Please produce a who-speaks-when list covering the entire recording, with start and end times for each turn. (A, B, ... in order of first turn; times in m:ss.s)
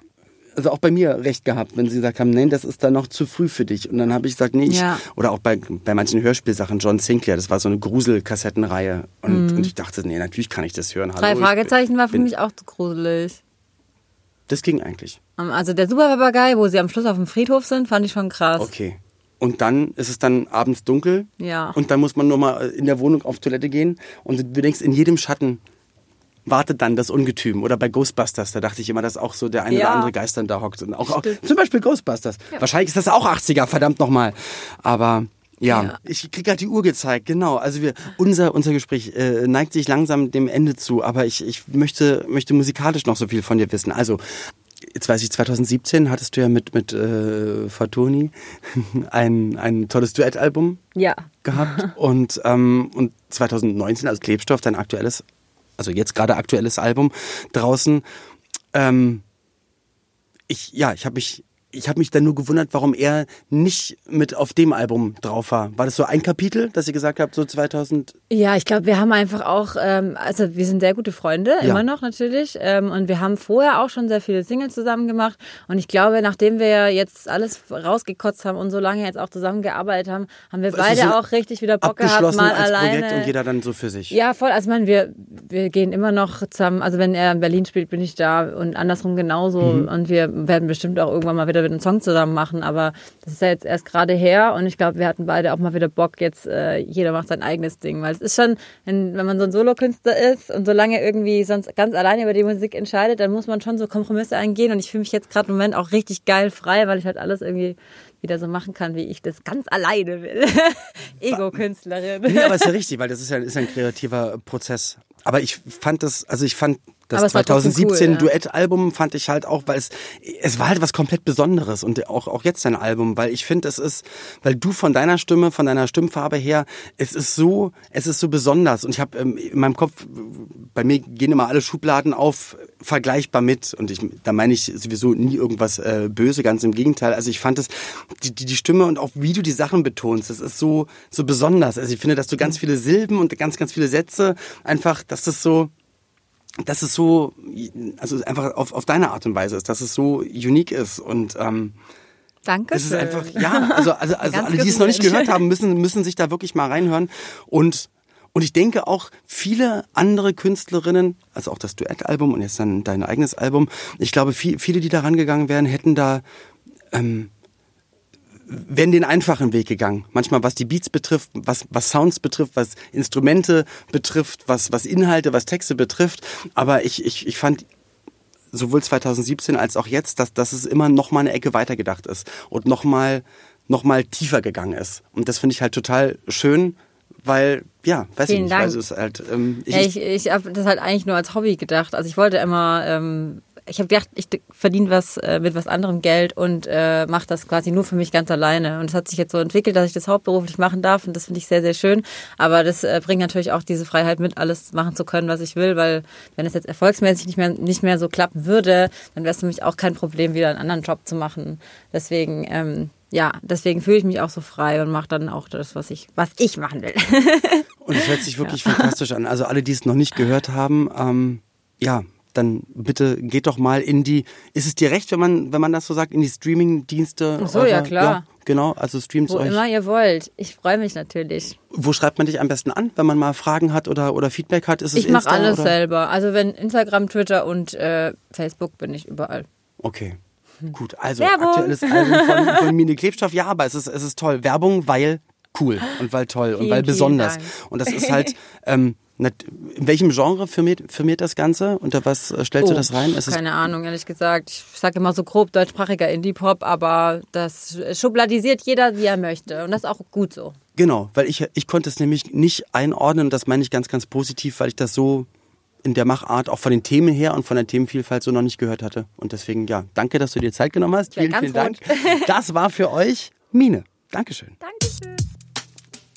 0:00.6-0:12.3 A
0:04.7-0:05.0 B
0:09.3-0:09.7 B
0:11.2-0:13.4 B
0:14.5-0:15.2 A
0:15.4-0:18.7 B
0:18.6-0:25.6 A
0:21.4-0:21.8 B
0:26.4-0:44.2 A
0:29.7-0:30.1 B
0:31.0-0:31.4 B
0:35.7-0:36.0 B
0:44.8-0:50.8 A
0:51.0-0:51.9 B
0:51.4-0:55.2 A
0:55.8-0:58.0 A
0:58.7-0:59.2 A
1:00.5-1:08.2 A
1:08.3-1:23.3 B
1:20.7-1:21.2 A
1:21.8-1:24.2 A
1:24.1-1:52.7 B
1:29.6-1:29.9 A
1:51.3-1:51.6 A
1:52.2-2:25.7 A
1:57.1-1:58.3 B
2:26.6-2:31.8 A
2:32.4-2:35.4 B
2:32.7-2:46.2 A
2:46.9-2:47.3 A
2:48.5-2:57.6 A
2:58.5-3:09.9 A
3:08.2-3:08.8 B
3:09.7-3:38.9 B
3:37.8-3:49.6 A
3:47.4-3:48.2 B
3:49.3-3:51.6 B
3:51.7-3:55.7 A
3:55.0-3:59.4 B
3:59.8-4:00.2 A
4:00.7-4:13.4 A
4:01.2-4:02.7 B
4:06.6-4:08.3 B
4:12.6-4:20.6 B
4:20.8-4:25.3 A
4:25.8-4:34.6 A
4:31.1-4:32.3 B
4:34.6-4:35.2 B